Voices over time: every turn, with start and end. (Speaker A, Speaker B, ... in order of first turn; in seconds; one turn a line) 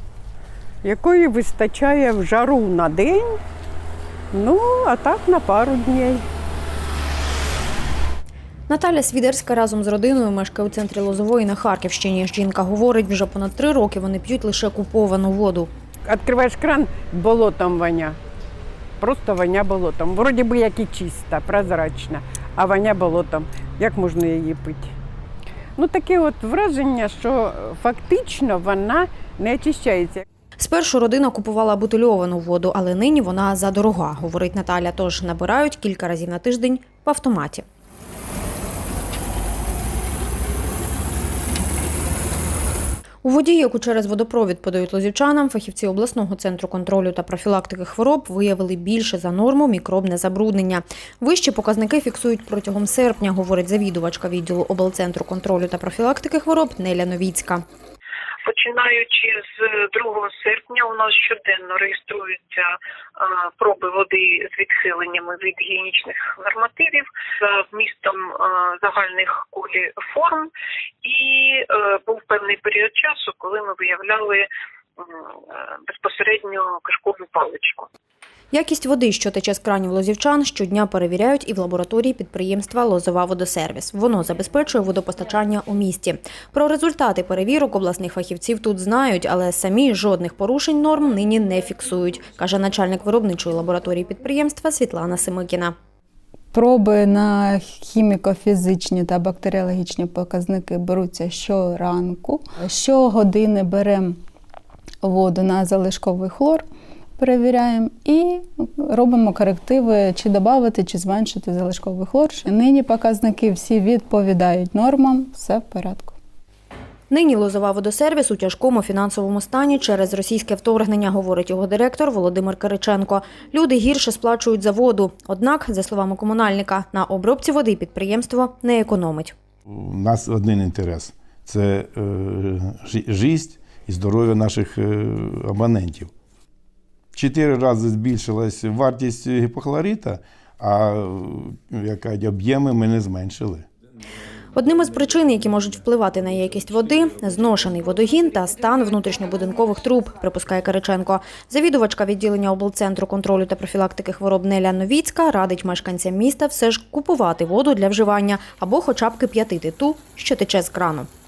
Speaker A: 0.8-3.4
Speaker A: 4.3-6.2
Speaker B: 8.7-15.7
Speaker A: 16.1-18.2
Speaker A: 19.0-24.9
Speaker A: 25.8-30.2
Speaker B: 30.6-37.6
Speaker B: 43.2-57.6
Speaker C: 58.4-70.5
Speaker C: 71.0-74.5
Speaker C: 75.0-77.9
Speaker B: 78.5-95.7
Speaker D: 96.5-104.2
Speaker D: 105.0-106.6
Speaker D: 107.2-116.2
Speaker B: 117.1-129.3
Speaker E: 129.7-136.1
Speaker E: 137.1-143.7
Speaker B: 144.5-161.1